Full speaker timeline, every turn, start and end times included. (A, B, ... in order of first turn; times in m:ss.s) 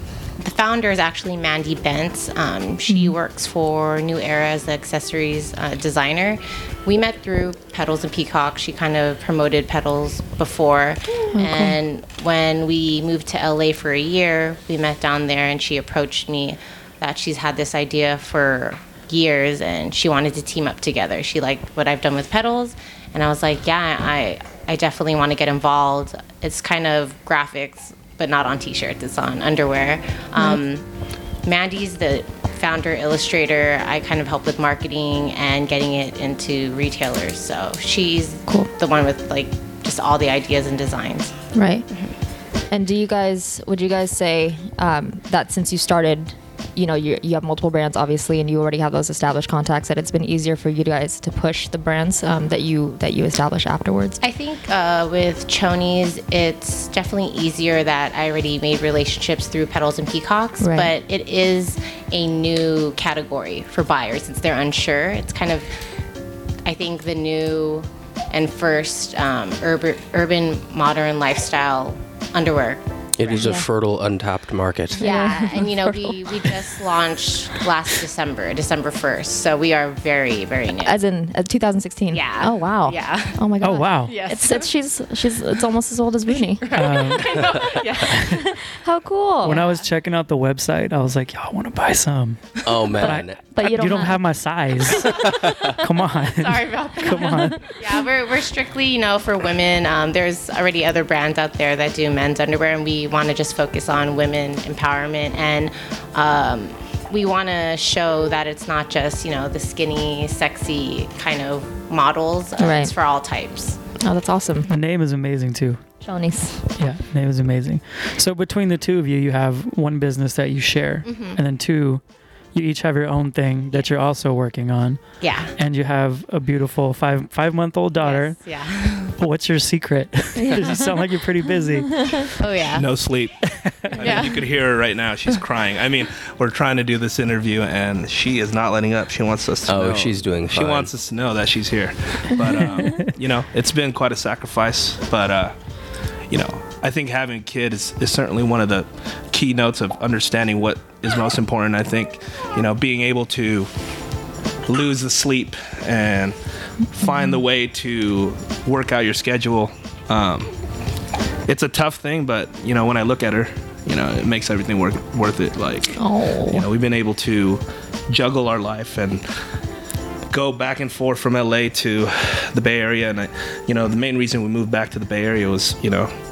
0:00.4-0:30.8 A
0:02.9-0:03.1 B
0:11.3-0:11.8 B
0:31.4-0:41.4 A
0:41.5-0:41.8 B
0:42.7-0:54.2 B
0:54.2-1:05.7 A
1:00.6-1:00.9 B
1:06.6-1:13.5 A
1:13.2-1:15.1 C
1:13.3-1:13.6 B
1:15.0-1:16.4 B
1:15.0-1:21.0 A
1:20.8-1:26.8 B
1:22.1-1:23.4 A
1:23.6-1:24.2 D
1:24.0-1:24.7 A
1:26.3-1:28.5 A
1:26.7-1:27.4 D
1:28.1-1:28.4 D
1:28.5-1:29.7 B
1:29.4-1:37.7 D
1:32.6-1:33.4 C
1:33.0-1:34.2 B
1:35.2-1:35.7 C
1:36.3-1:53.8 A
1:52.6-1:52.9 B
1:54.0-1:54.7 B
1:54.7-1:55.8 D
1:56.0-1:56.6 B
1:56.7-2:12.4 D
2:01.0-2:01.4 A
2:05.2-2:05.6 A
2:08.0-2:09.1 A
2:10.4-2:10.9 B
2:12.4-2:12.8 A
2:12.7-2:25.5 E
2:13.5-2:14.0 D
2:13.9-2:14.4 A
2:19.6-2:20.9 C
2:22.8-2:23.1 D
2:26.3-2:33.7 E
2:34.7-2:36.4 E
2:36.9-2:40.5 E
2:37.0-2:37.4 B
2:41.5-2:49.3 E
2:46.0-2:46.6 B
2:50.3-2:56.1 E